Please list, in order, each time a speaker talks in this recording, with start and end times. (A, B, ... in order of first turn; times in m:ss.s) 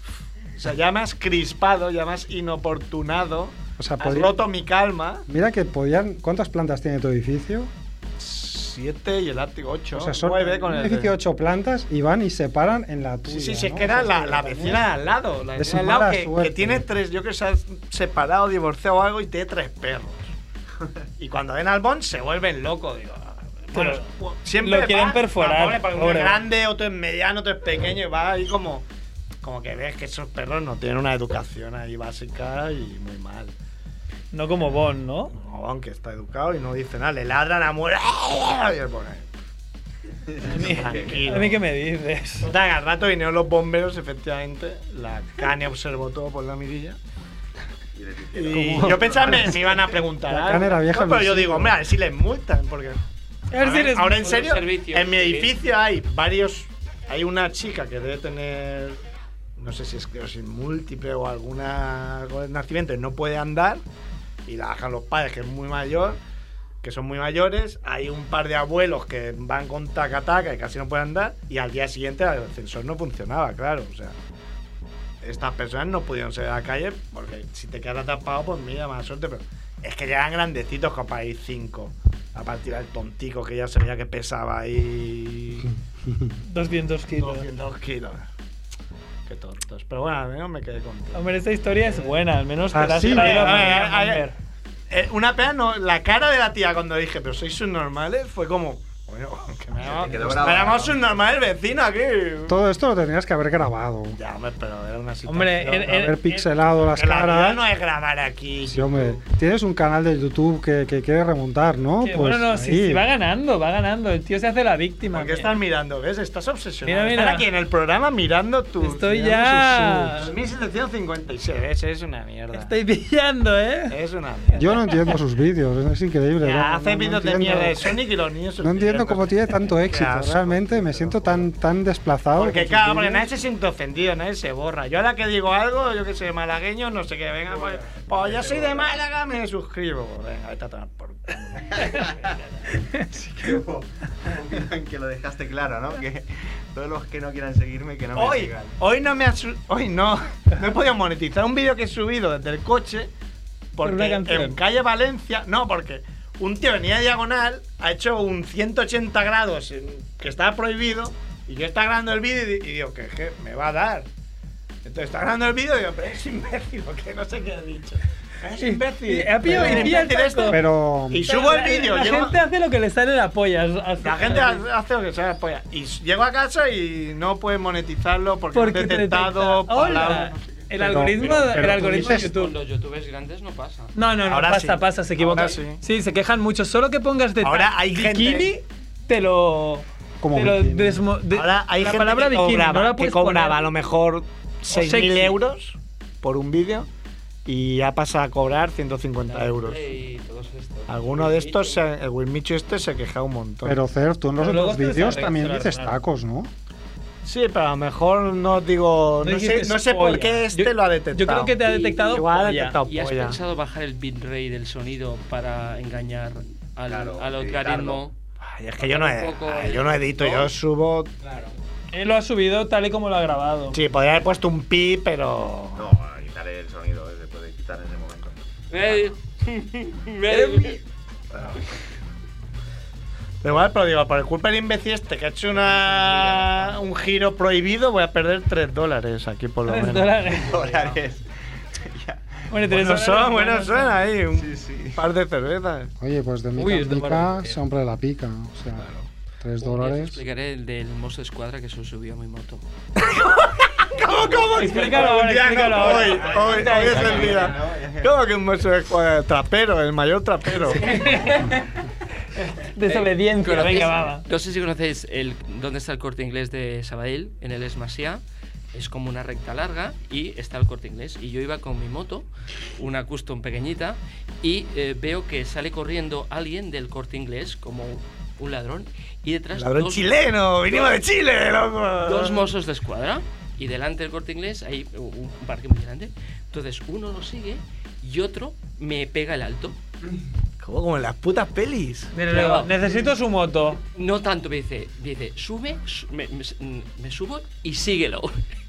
0:00.6-0:05.3 A
0:03.8-0:04.4 B
0:05.3-0:07.7 B
0:08.2-0:11.1 A
0:09.9-0:14.9 B
0:13.3-0:20.3 A
0:15.5-0:16.9 B
0:21.2-0:28.9 A
0:23.7-0:26.4 C
0:29.4-0:33.5 A
0:34.3-0:35.3 C
0:35.3-0:39.3 A
0:40.4-0:41.1 D
0:40.4-0:42.5 C
0:40.5-0:41.6 A
0:42.4-0:47.0 A
0:48.0-0:49.5 D
0:48.3-0:53.0 A
0:48.5-0:49.7 B
0:50.2-0:51.8 B
0:53.5-0:54.3 C
0:53.6-0:59.0 A
0:54.2-0:55.5 E
0:59.6-1:03.8 A
1:04.4-1:06.2 A
1:06.8-1:14.2 A
1:15.2-1:25.7 A
1:26.4-1:27.5 C
1:27.2-1:28.3 A
1:29.2-1:32.1 A
1:31.1-1:34.4 C
1:32.7-1:33.8 B
1:32.8-1:34.3 A
1:34.9-1:42.6 A
1:39.8-1:41.0 D
1:42.5-1:44.2 B
1:44.1-1:46.0 A
1:45.2-1:46.5 C
1:45.8-1:47.6 B
1:46.9-1:49.2 A
1:48.6-1:53.0 B
1:52.0-1:55.5 C
1:55.1-2:02.7 A
1:56.8-1:57.4 C
1:58.8-2:00.3 C
2:02.5-2:03.9 C
2:03.9-2:04.8 A
2:04.6-2:08.0 B
2:06.4-2:11.5 A
2:08.6-2:13.3 B
2:12.4-2:22.1 A
2:17.9-2:18.9 D
2:21.7-2:22.4 D
2:22.8-2:23.1 C
2:23.2-2:28.8 D
2:28.1-2:33.1 A
2:33.7-2:44.1 A
2:33.8-2:34.6 C
2:44.8-2:52.4 A
2:48.6-2:50.6 C
2:49.5-2:51.4 B
2:51.1-2:54.6 C
2:54.0-3:01.5 A
2:58.5-3:02.5 C
3:00.8-3:02.3 B
3:01.3-3:03.9 E
3:04.0-3:13.7 C
3:04.2-3:05.8 A
3:07.4-3:08.5 A
3:10.2-3:11.0 B
3:11.3-3:16.9 A
3:14.7-3:15.4 C
3:17.4-3:19.8 A
3:19.2-3:21.8 E
3:20.9-3:23.8 A
3:23.6-3:26.5 B
3:24.4-3:26.0 C
3:27.2-3:33.4 A
3:29.2-3:32.8 C
3:31.6-3:32.0 E
3:32.8-3:38.1 E
3:36.9-3:38.0 D
3:38.4-3:41.1 A
3:38.8-3:40.5 E
3:41.9-3:43.8 C
3:43.7-3:45.9 A
3:45.7-3:49.1 D
3:48.7-3:50.8 E
3:53.4-4:00.6 A
3:55.9-3:56.4 D
3:59.7-4:00.9 C
4:00.4-4:02.4 D
4:02.5-4:04.0 C
4:02.7-4:05.9 A
4:04.3-4:05.0 D
4:06.0-4:08.9 B
4:06.6-4:07.6 C
4:08.8-4:09.1 A
4:09.4-4:10.2 B
4:09.6-4:12.6 E
4:13.0-4:21.1 A
4:14.5-4:17.5 C
4:15.9-4:18.1 D
4:20.7-4:21.6 C
4:22.3-4:24.2 C
4:22.8-4:40.2 E
4:39.5-4:42.5 A
4:42.0-4:49.8 E
4:50.6-4:52.1 A
4:52.1-4:53.8 C
4:52.3-4:52.9 E
4:53.9-4:58.4 E